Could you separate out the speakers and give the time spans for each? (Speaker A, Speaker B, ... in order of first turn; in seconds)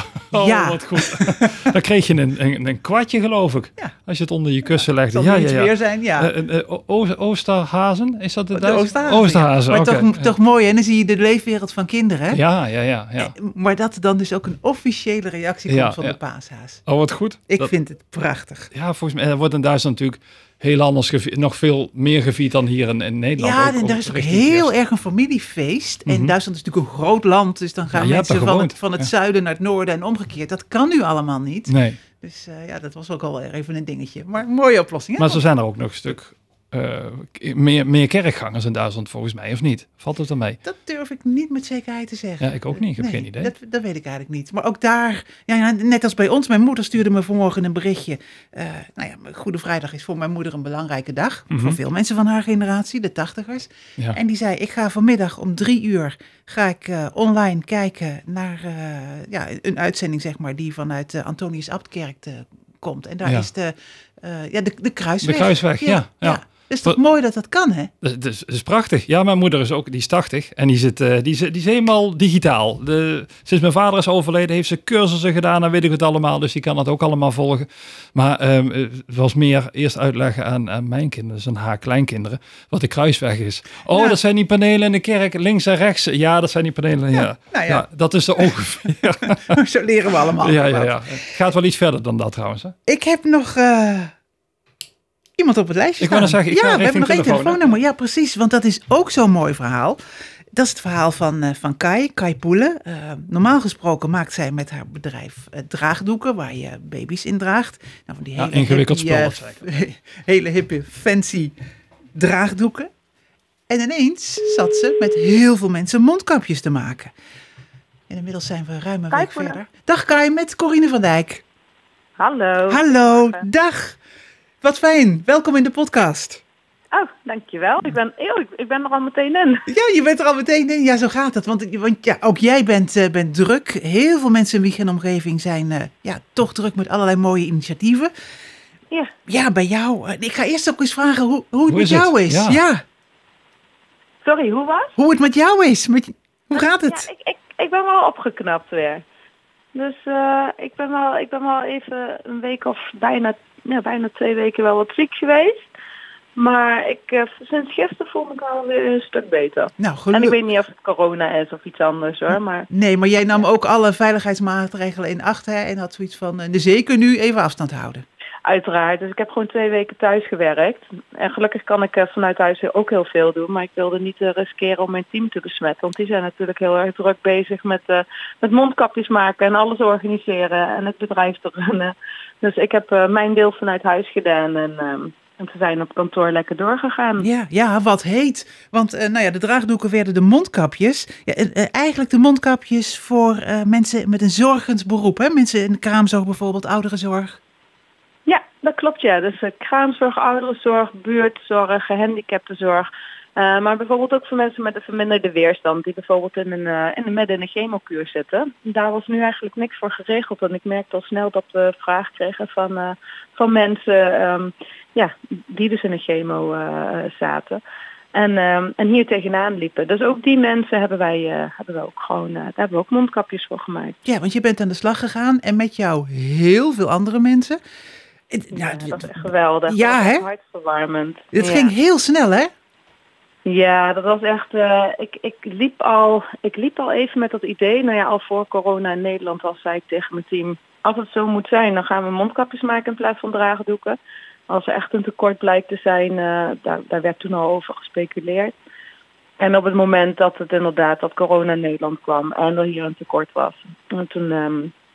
Speaker A: 0.3-10.3, 12.3-13.3, 15.7-16.1, 16.9-17.7, 18.7-24.7, 26.1-26.3, 27.9-29.1, 31.7-32.0, 35.2-40.6, 42.4-43.5, 51.5-51.8, 65.2-67.0, 68.0-89.6, 90.4-92.7, 96.0-97.7, 108.4-109.6, 141.7-142.6
Speaker B: 0.3-1.5, 4.7-6.3, 8.5-12.4, 13.2-16.8, 17.5-18.7, 23.4-35.4, 40.6-67.9, 83.9-84.2, 87.1-87.8, 89.5-91.1, 92.9-94.1, 95.4-100.0, 100.5-111.5, 112.1-112.9, 113.7-117.1, 118.1-121.4, 122.7-124.0, 124.6-126.4, 129.7-138.1, 139.3-142.8, 145.0-147.0, 159.8-160.3, 162.7-168.1, 187.2-197.4, 224.0-227.6, 228.3-229.2, 229.7-230.2, 231.3-232.5
Speaker C: 119.1-119.6, 122.2-123.4, 126.9-129.7, 144.2-144.9, 146.5-149.0, 149.7-155.7, 156.4-162.7, 168.4-187.3, 198.2-217.6, 218.1-224.0, 228.5-231.7, 233.4-244.0, 244.5-248.6, 249.4-254.7